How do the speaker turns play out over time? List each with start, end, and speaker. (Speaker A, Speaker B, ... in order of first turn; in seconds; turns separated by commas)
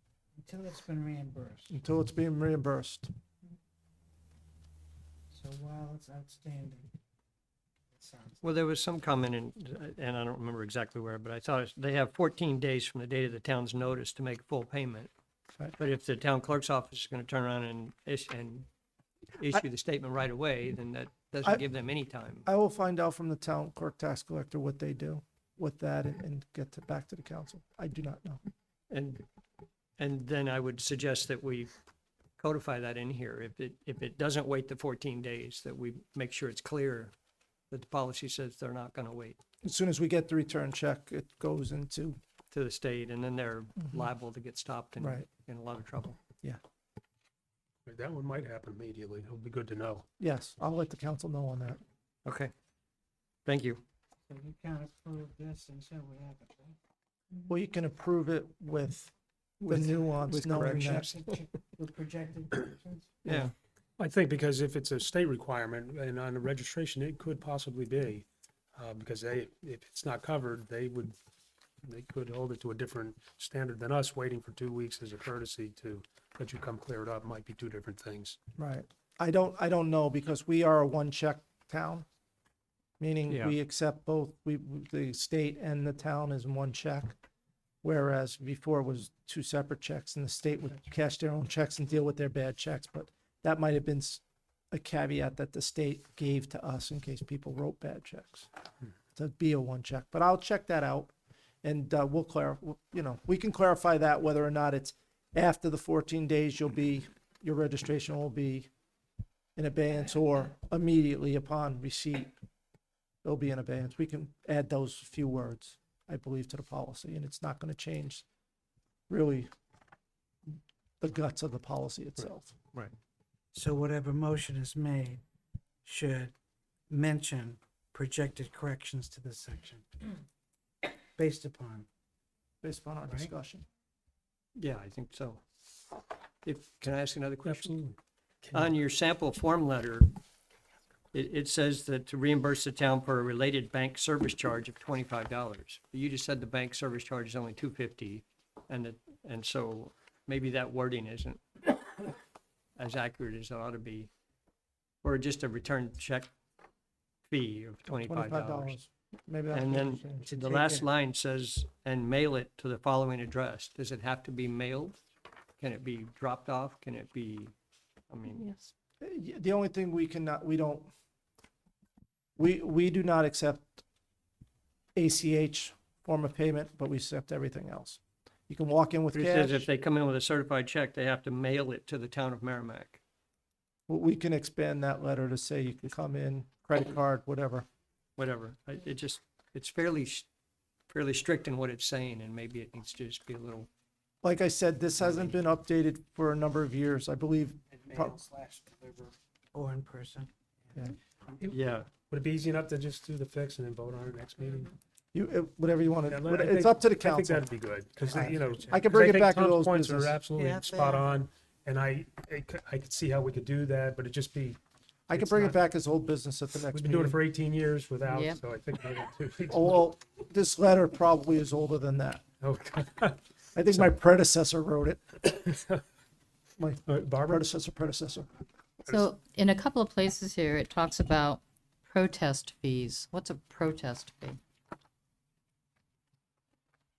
Speaker A: 0.4-1.7, Speaker B: 1.7-3.1, Speaker A: 5.3-6.9, Speaker A: 7.9-8.4, Speaker C: 8.4-15.1, Speaker C: 15.8-18.7, Speaker C: 19.4-22.5, Speaker B: 22.4-28.4, Speaker C: 28.9-29.2, Speaker C: 30.0-31.7, Speaker C: 32.4-37.1, Speaker C: 37.7-39.4, Speaker B: 39.6-42.2, Speaker C: 42.5-46.2, Speaker B: 45.0-45.3, Speaker D: 47.9-50.0, Speaker B: 50.2-51.8, Speaker C: 52.2-52.5, Speaker C: 53.5-53.8, Speaker A: 54.3-56.8, Speaker B: 57.5-61.2, Speaker C: 59.7-61.2, Speaker A: 60.6-63.2, Speaker C: 63.2-63.5, Speaker D: 64.0-71.2, Speaker D: 71.8-78.4, Speaker B: 78.6-82.1, Speaker B: 83.0-87.2, Speaker C: 83.3-83.6, Speaker B: 87.8-98.5, Speaker B: 99.1-108.7, Speaker B: 109.6-112.3, Speaker B: 113.2-118.2, Speaker B: 119.1-119.5, Speaker B: 121.0-122.5, Speaker A: 123.5-125.2, Speaker A: 125.8-126.3, Speaker A: 126.9-130.2, Speaker A: 131.2-131.8, Speaker B: 132.6-133.7, Speaker C: 134.6-135.4, Speaker C: 136.4-137.7, Speaker D: 137.4-138.7, Speaker C: 138.5-140.1, Speaker C: 141.1-152.1, Speaker C: 152.8-154.1, Speaker C: 155.0-156.3, Speaker C: 157.3-158.8, Speaker B: 157.9-160.3, Speaker C: 159.5-165.0, Speaker A: 160.2-160.8, Speaker C: 165.6-167.5, Speaker C: 168.1-168.5, Speaker E: 168.3-168.7, Speaker B: 169.0-170.9, Speaker B: 172.4-173.8, Speaker B: 174.9-179.7, Speaker C: 179.1-183.0, Speaker B: 183.9-187.7, Speaker C: 188.2-190.3, Speaker C: 190.9-193.7, Speaker B: 194.2-198.2, Speaker A: 199.5-200.3, Speaker D: 201.3-204.7, Speaker C: 201.5-201.9, Speaker B: 205.1-207.5, Speaker D: 206.1-214.6, Speaker A: 208.0-208.8, Speaker B: 208.7-210.2, Speaker A: 210.3-211.2, Speaker B: 215.1-217.2, Speaker D: 215.1-215.6, Speaker D: 216.7-219.9, Speaker E: 218.1-218.4, Speaker B: 219.5-222.2, Speaker D: 222.4-223.9, Speaker B: 223.5-225.2, Speaker D: 225.2-225.8, Speaker B: 226.6-228.3, Speaker D: 226.9-227.4, Speaker E: 228.8-234.4